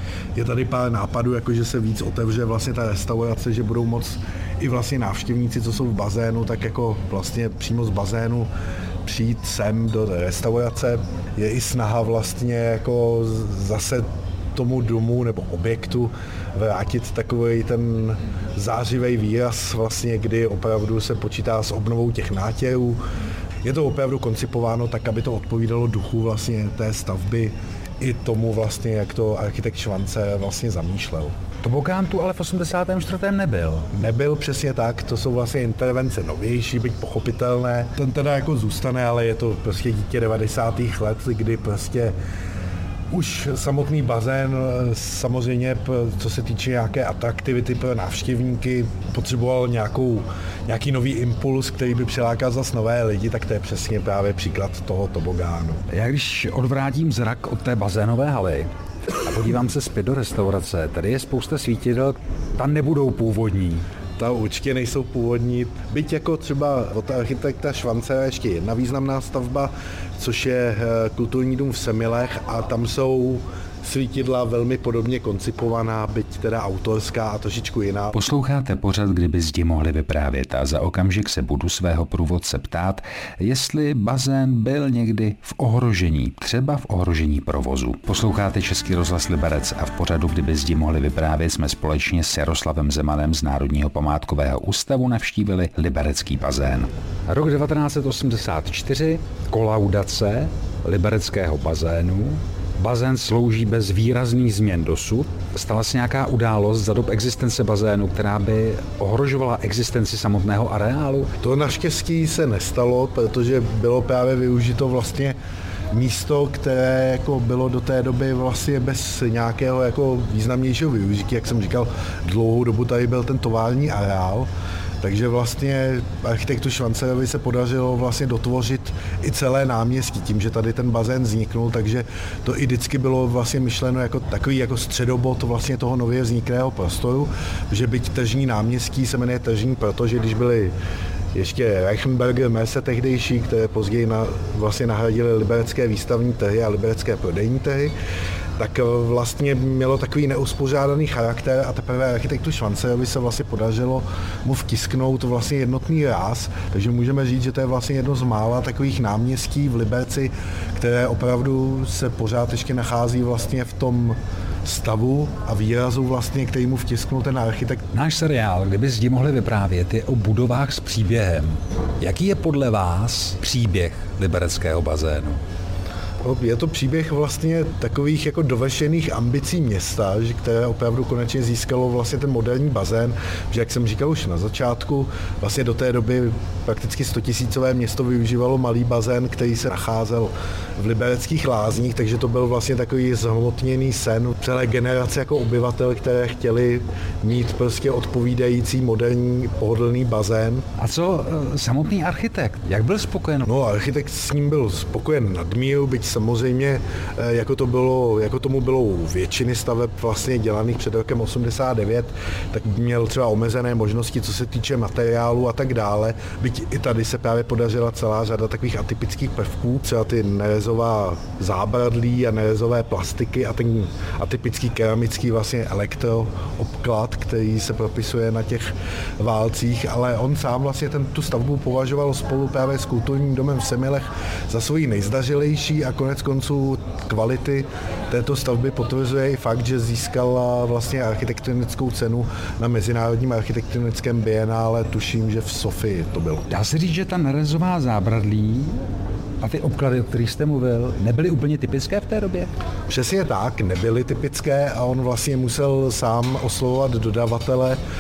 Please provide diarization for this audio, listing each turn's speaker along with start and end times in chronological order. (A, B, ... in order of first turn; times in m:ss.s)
0:00.4-0:08.5 A
0:09.0-0:23.0 A
0:23.6-0:31.3 A
0:31.6-0:33.9 B
0:33.9-0:42.2 A
0:43.1-0:55.8 A
0:55.9-0:58.7 B
0:59.2-1:03.8 B
1:04.2-1:18.2 A
1:18.1-1:51.3 B
1:51.4-1:55.4 A
1:55.9-2:04.5 A
2:05.0-2:20.7 A
2:21.3-2:27.9 A
2:28.6-2:47.8 A
2:47.9-2:55.4 B
2:56.2-3:20.6 A
3:20.8-3:23.5 B
3:23.4-4:06.5 A
4:06.5-4:08.8 B
4:09.4-4:12.5 B
4:12.9-4:17.8 A